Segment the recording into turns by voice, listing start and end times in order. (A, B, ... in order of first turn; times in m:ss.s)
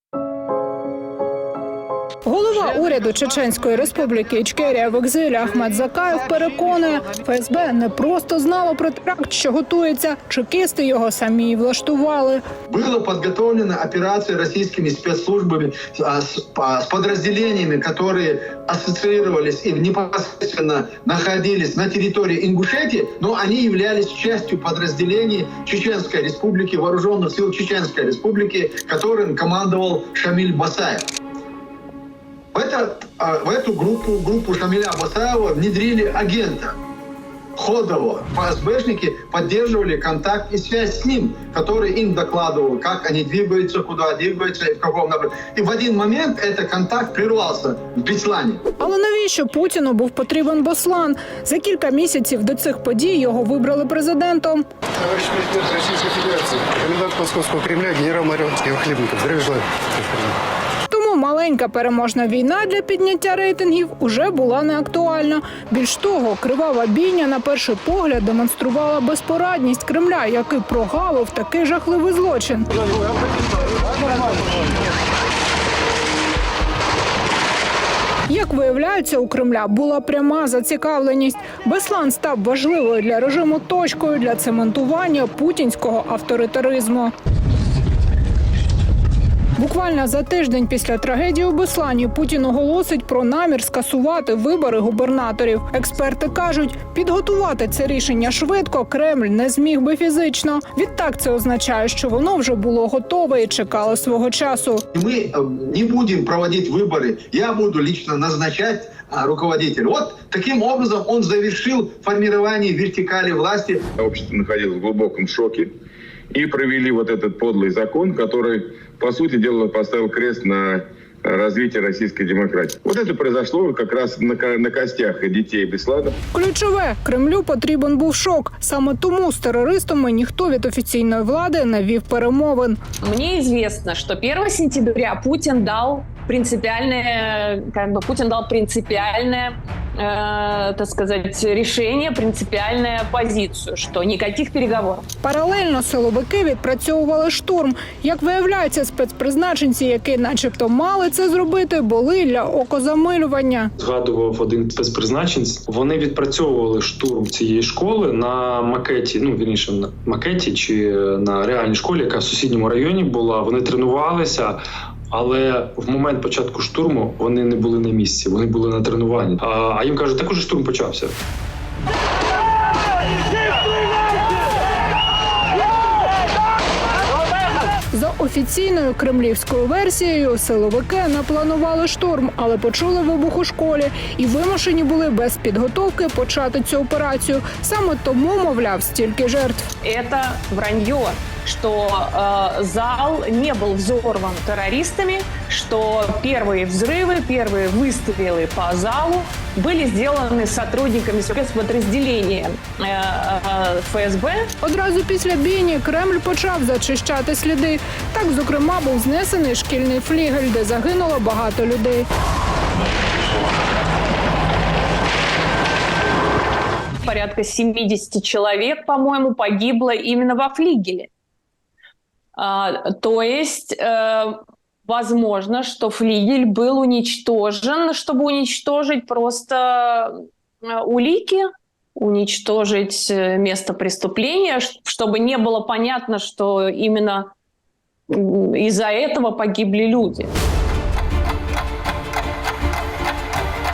0:02.3-0:12.4 A
0:12.7-0:31.1 B
0:32.5-0:36.8 B
0:37.6-0:48.6 B
0:48.8-0:54.6 A
0:55.0-1:00.4 C
1:00.9-1:12.7 A
1:18.3-1:27.1 A
1:29.6-1:44.8 A
1:45.0-1:53.8 B
1:54.0-1:55.7 D
1:56.3-2:06.2 D
2:06.3-2:12.8 A
2:13.0-2:25.1 E
2:25.2-2:33.7 A
2:33.8-2:44.6 F
2:45.1-2:51.2 F
2:57.9-3:09.7 A
3:09.8-3:24.5 E
3:24.6-3:32.1 A
3:37.0-3:41.1 E
3:42.4-3:57.3 E
3:58.1-4:00.3 E